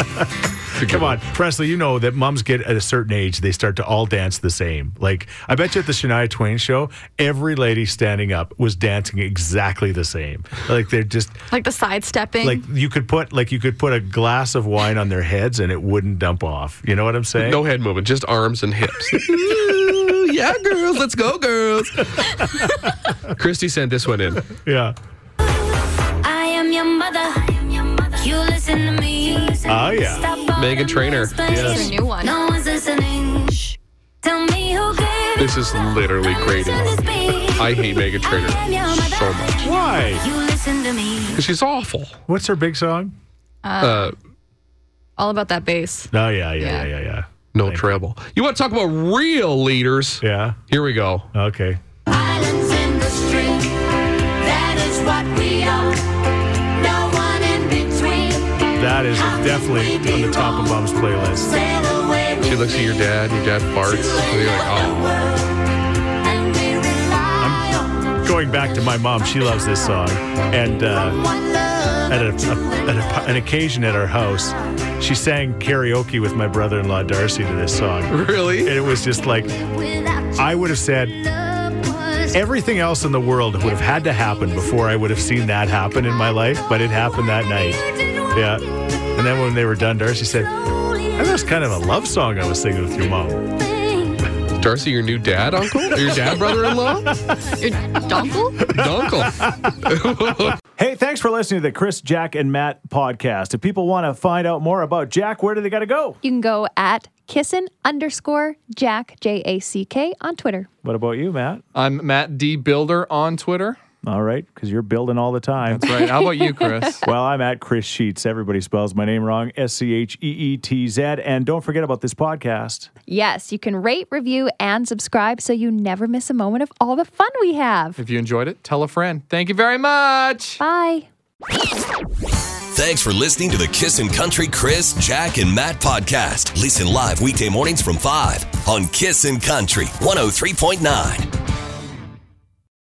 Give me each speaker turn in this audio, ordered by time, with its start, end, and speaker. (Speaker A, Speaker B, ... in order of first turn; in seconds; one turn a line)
Speaker A: 0.7-1.2
Speaker B: 0.8-11.4
Speaker C: 11.5-12.6
Speaker B: 12.4-17.6
Speaker A: 17.4-22.3
Speaker A: 23.3-24.5
Speaker B: 24.6-24.9
Speaker D: 26.2-41.4
Speaker B: 29.6-30.3
Speaker A: 30.5-31.7
Speaker B: 31.5-31.9
Speaker C: 31.5-32.4
Speaker A: 35.4-39.5
Speaker B: 39.6-40.2
Speaker A: 41.3-42.2
Speaker B: 42.3-43.1
Speaker C: 43.6-44.1
Speaker A: 43.8-44.1
Speaker C: 45.2-46.9
Speaker B: 46.1-47.9
Speaker A: 47.5-51.3
Speaker B: 50.2-50.6
Speaker B: 51.3-51.8
Speaker D: 52.1-53.7
Speaker D: 54.4-56.1
Speaker D: 56.7-58.7
Speaker B: 58.7-61.6
Speaker D: 59.7-60.5
Speaker D: 61.5-62.5
Speaker A: 62.4-65.2
Speaker D: 64.1-65.3
Speaker D: 66.3-67.4
Speaker B: 67.4-71.2
Speaker B: 72.1-79.6
Speaker A: 78.1-78.8
Speaker B: 80.3-81.2
Speaker B: 82.3-93.5
Speaker A: 94.5-97.1
Speaker C: 97.6-98.7
Speaker A: 98.7-100.5
Speaker B: 100.8-106.2
Speaker E: 106.2-110.7
Speaker B: 110.8-111.6
Speaker F: 111.7-113.8
Speaker B: 114.0-115.9
Speaker F: 115.7-117.1
Speaker E: 115.9-116.9
Speaker B: 117.0-122.9
Speaker E: 123.1-128.0
Speaker F: 128.0-130.6
Speaker E: 130.6-131.1
Speaker G: 132.7-141.3